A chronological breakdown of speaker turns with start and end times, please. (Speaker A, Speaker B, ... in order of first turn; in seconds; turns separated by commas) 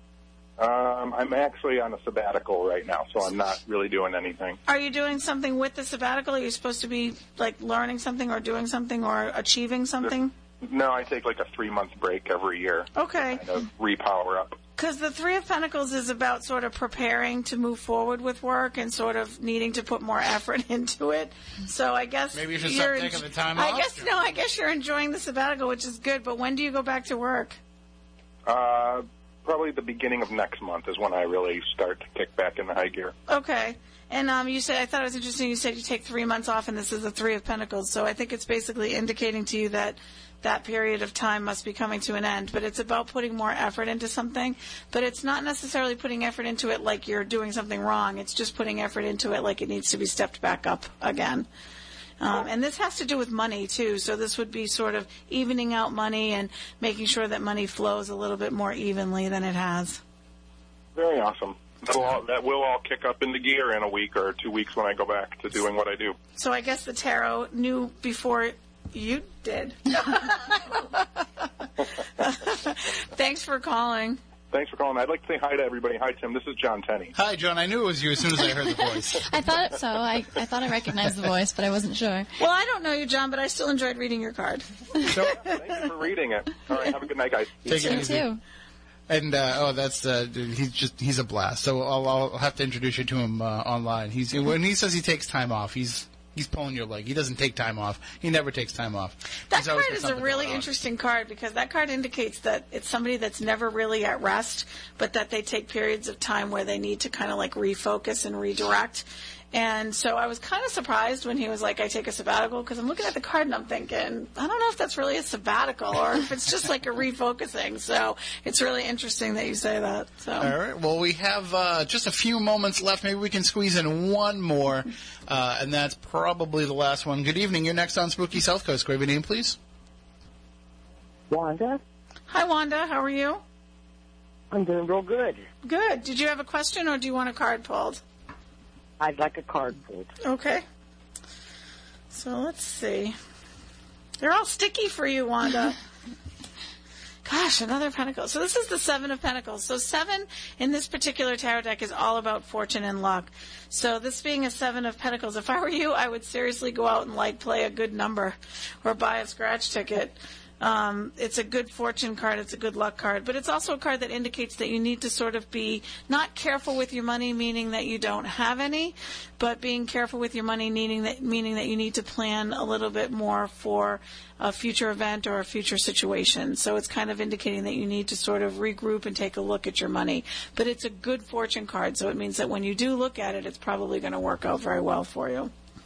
Speaker A: 0.6-4.6, Speaker B: 4.7-10.3, Speaker A: 10.0-14.6, Speaker B: 12.9-13.4, Speaker B: 14.8-27.6, Speaker C: 22.3-24.2, Speaker A: 28.5-33.1, Speaker B: 33.3-51.5, Speaker B: 52.2-60.0, Speaker A: 61.0-66.2, Speaker B: 66.4-71.7, Speaker B: 72.2-74.2, Speaker A: 74.5-77.1, Speaker C: 77.2-79.3, Speaker D: 79.3-82.3, Speaker B: 82.4-85.4, Speaker A: 85.0-87.7, Speaker C: 87.7-88.3, Speaker D: 87.7-88.4, Speaker C: 89.1-100.7, Speaker B: 99.5-120.5, Speaker C: 120.4-129.6, Speaker E: 131.3-131.8, Speaker B: 132.3-133.4, Speaker E: 134.5-135.4, Speaker B: 135.6-138.0, Speaker E: 139.0-140.1, Speaker B: 140.2-140.6, Speaker B: 142.1-143.2, Speaker B: 144.2-145.8, Speaker B: 147.2-185.5